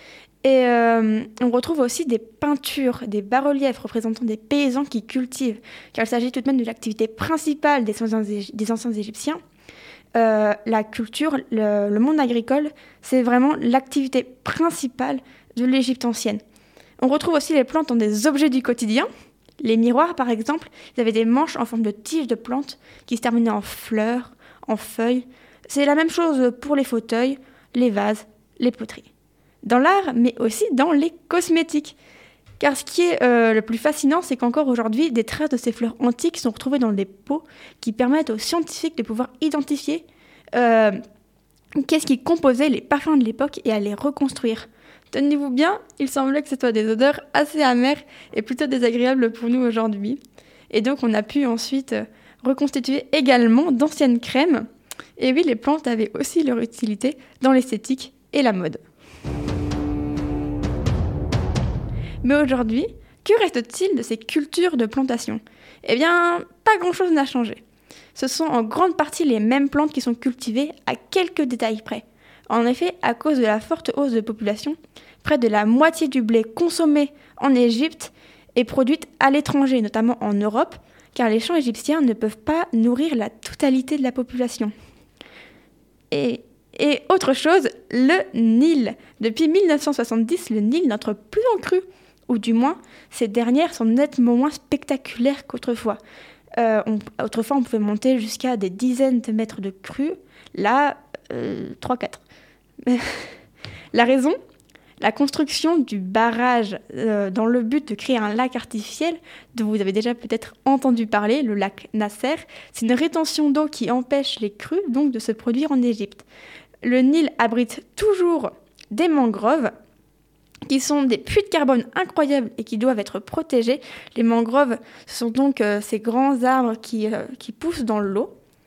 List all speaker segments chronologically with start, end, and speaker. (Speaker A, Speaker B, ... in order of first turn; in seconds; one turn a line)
Speaker A: 0.4-9.4
Speaker A: 10.1-16.4
Speaker A: 17.0-19.1
Speaker A: 19.6-29.1
Speaker A: 29.6-31.9
Speaker A: 32.6-41.0
Speaker A: 41.8-50.2
Speaker A: 50.7-58.8
Speaker A: 62.2-67.6
Speaker A: 68.1-84.7
Speaker A: 86.1-96.0
Speaker A: 96.6-102.2
Speaker A: 102.8-103.3
Speaker A: 103.9-104.4
Speaker A: 105.0-116.2
Speaker A: 116.8-119.7
Speaker A: 120.7-128.3